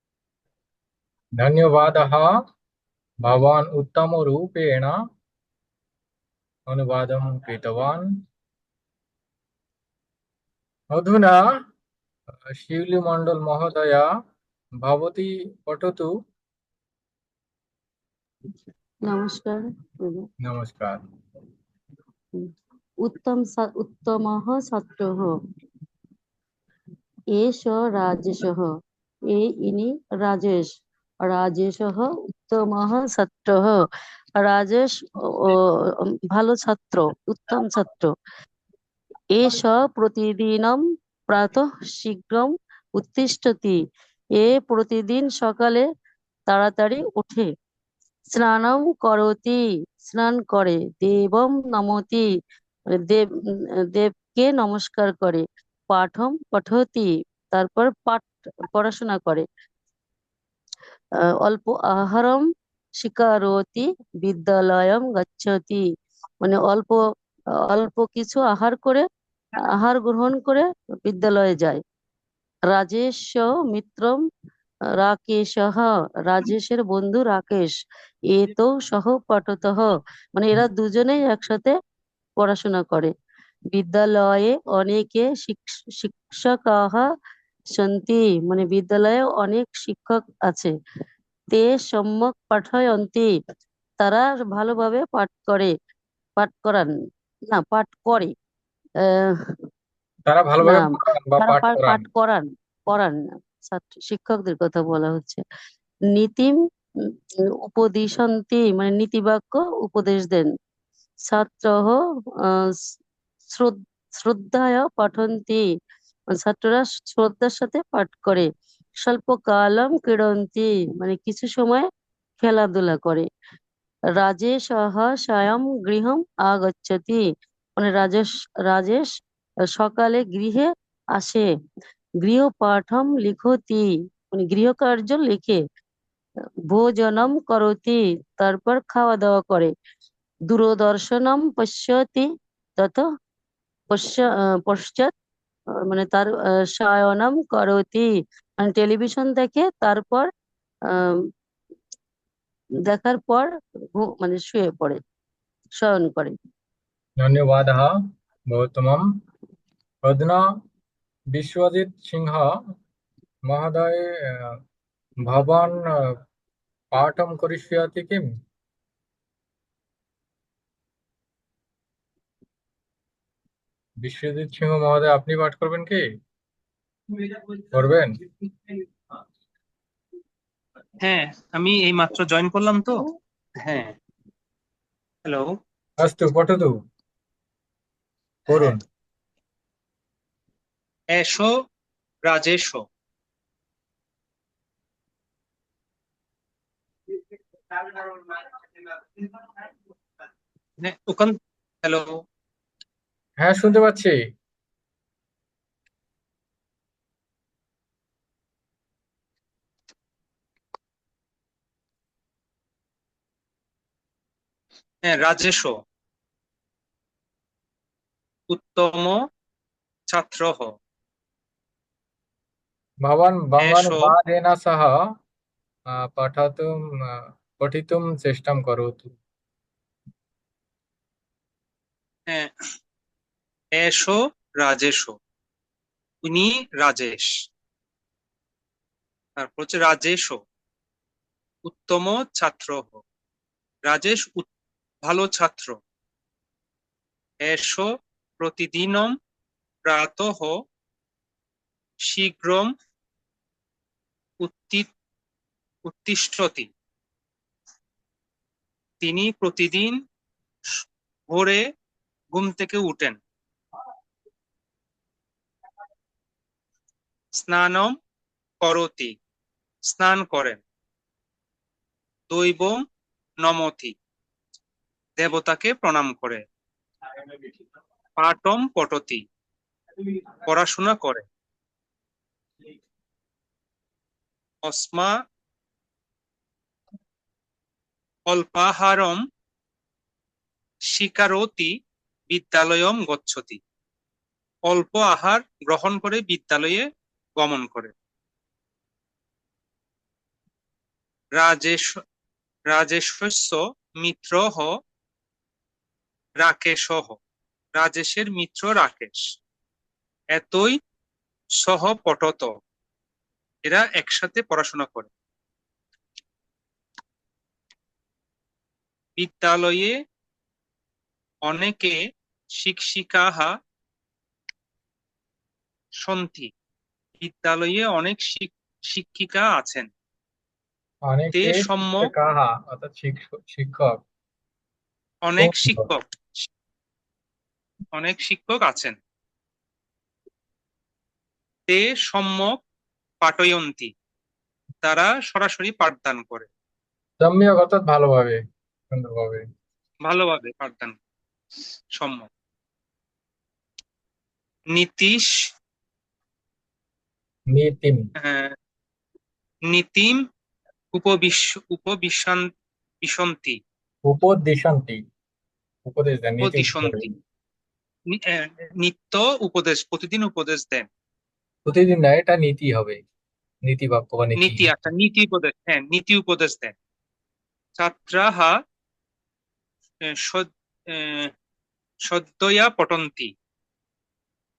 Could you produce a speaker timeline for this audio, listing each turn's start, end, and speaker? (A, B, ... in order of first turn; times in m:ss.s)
0:01.4-0:02.4 A
0:03.2-0:05.0 A
0:06.7-0:08.2 A
0:10.9-0:11.6 A
0:12.5-0:14.1 A
0:14.8-0:16.1 A
0:19.0-0:20.3 B
0:20.4-0:21.0 A
0:23.0-0:25.3 B
0:27.3-0:28.7 B
0:29.3-0:30.7 B
0:31.2-0:33.8 B
0:34.4-0:38.1 B
0:39.3-0:43.8 B
0:44.4-0:45.8 B
0:46.5-0:47.5 B
0:48.3-0:52.3 B
0:52.9-0:53.3 B
0:53.8-0:59.4 B
1:01.4-1:02.5 B
1:03.0-1:05.8 B
1:06.4-1:07.0 B
1:07.6-1:09.0 B
1:09.7-1:11.8 B
1:12.7-1:14.2 B
1:15.0-1:17.7 B
1:18.3-1:21.7 B
1:22.4-1:23.1 B
1:23.7-1:27.1 B
1:27.8-1:30.7 B
1:31.5-1:33.3 B
1:34.0-1:35.7 B
1:36.4-1:36.9 B
1:37.5-1:38.3 B
1:39.0-1:39.6 B
1:40.2-1:42.0 A
1:40.6-1:45.4 B
1:46.1-1:46.6 B
1:47.6-1:50.5 B
1:51.3-1:52.7 B
1:53.5-1:55.6 B
1:56.3-1:58.5 B
1:59.0-2:01.9 B
2:02.4-2:03.3 B
2:04.2-2:09.1 B
2:09.7-2:11.5 B
2:12.2-2:15.6 B
2:16.7-2:19.7 B
2:20.5-2:23.0 B
2:23.9-2:25.1 B
2:25.8-2:30.3 B
2:30.9-2:31.3 B
2:32.9-2:35.0 B
2:35.8-2:36.3 B
2:37.2-2:38.0 A
2:38.5-2:39.1 A
2:40.0-2:40.4 A
2:41.3-2:42.6 A
2:43.4-2:44.6 A
2:45.2-2:46.2 A
2:46.9-2:48.3 A
2:54.0-2:56.0 A
2:57.7-2:58.1 A
3:01.0-3:03.1 C
3:03.6-3:03.9 C
3:05.2-3:05.6 C
3:06.0-3:06.7 A
3:08.5-3:08.8 A
3:11.1-3:11.5 C
3:12.3-3:12.8 C
3:20.8-3:22.2 C
3:23.4-3:24.2 A
3:35.0-3:35.7 C
3:38.5-3:39.2 C
3:40.1-3:40.7 C
3:43.0-3:45.0 A
3:43.6-3:44.1 C
3:45.9-3:49.1 A
3:53.8-3:55.2 C
3:56.2-3:57.3 C
3:59.4-4:00.4 C
4:01.6-4:03.0 C
4:03.9-4:04.4 C
4:05.0-4:05.8 C
4:07.4-4:09.1 C
4:09.8-4:10.6 C
4:12.1-4:12.7 C
4:14.4-4:14.9 C
4:15.8-4:16.7 C
4:19.0-4:20.0 C
4:20.7-4:21.6 C
4:22.3-4:23.2 C
4:27.4-4:27.9 C
4:28.6-4:29.1 C
4:29.9-4:30.6 C
4:32.3-4:32.8 C
4:33.4-4:33.9 C
4:35.2-4:36.4 C
4:38.2-4:39.2 C
4:40.4-4:41.2 C
4:44.6-4:45.2 C
4:48.3-4:49.2 C
4:50.9-4:51.7 C
4:52.3-4:53.6 C
4:54.7-4:57.9 C
5:01.4-5:01.9 C
5:02.7-5:04.7 C
5:06.4-5:07.2 C
5:07.7-5:09.2 C
5:10.3-5:10.8 C
5:11.6-5:12.6 C
5:13.6-5:15.1 C
5:19.2-5:19.9 C
5:21.4-5:22.0 C
5:22.6-5:23.6 C
5:26.0-5:26.5 C
5:27.2-5:29.9 C
5:31.1-5:34.0 A
5:31.3-5:32.1 C
5:35.2-5:36.5 C
5:35.4-5:35.9 A
5:37.9-5:39.0 C
5:41.7-5:42.6 C
5:43.2-5:43.9 C
5:44.8-5:46.5 C
5:47.2-5:48.4 A
5:48.9-5:49.4 A
5:50.0-5:51.0 C
5:52.0-5:52.3 C
5:54.7-5:55.4 C
5:57.5-5:58.0 A
5:58.2-5:58.6 C
5:59.7-6:00.2 C
6:00.9-6:02.5 C
6:03.0-6:03.6 C
6:04.0-6:05.0 A
6:05.8-6:07.0 A
6:06.4-6:07.1 C
6:08.1-6:10.9 C
6:11.6-6:13.0 A
6:13.6-6:14.7 A
6:14.4-6:16.7 C
6:17.8-6:18.6 C
6:20.0-6:21.3 C
6:22.0-6:23.3 C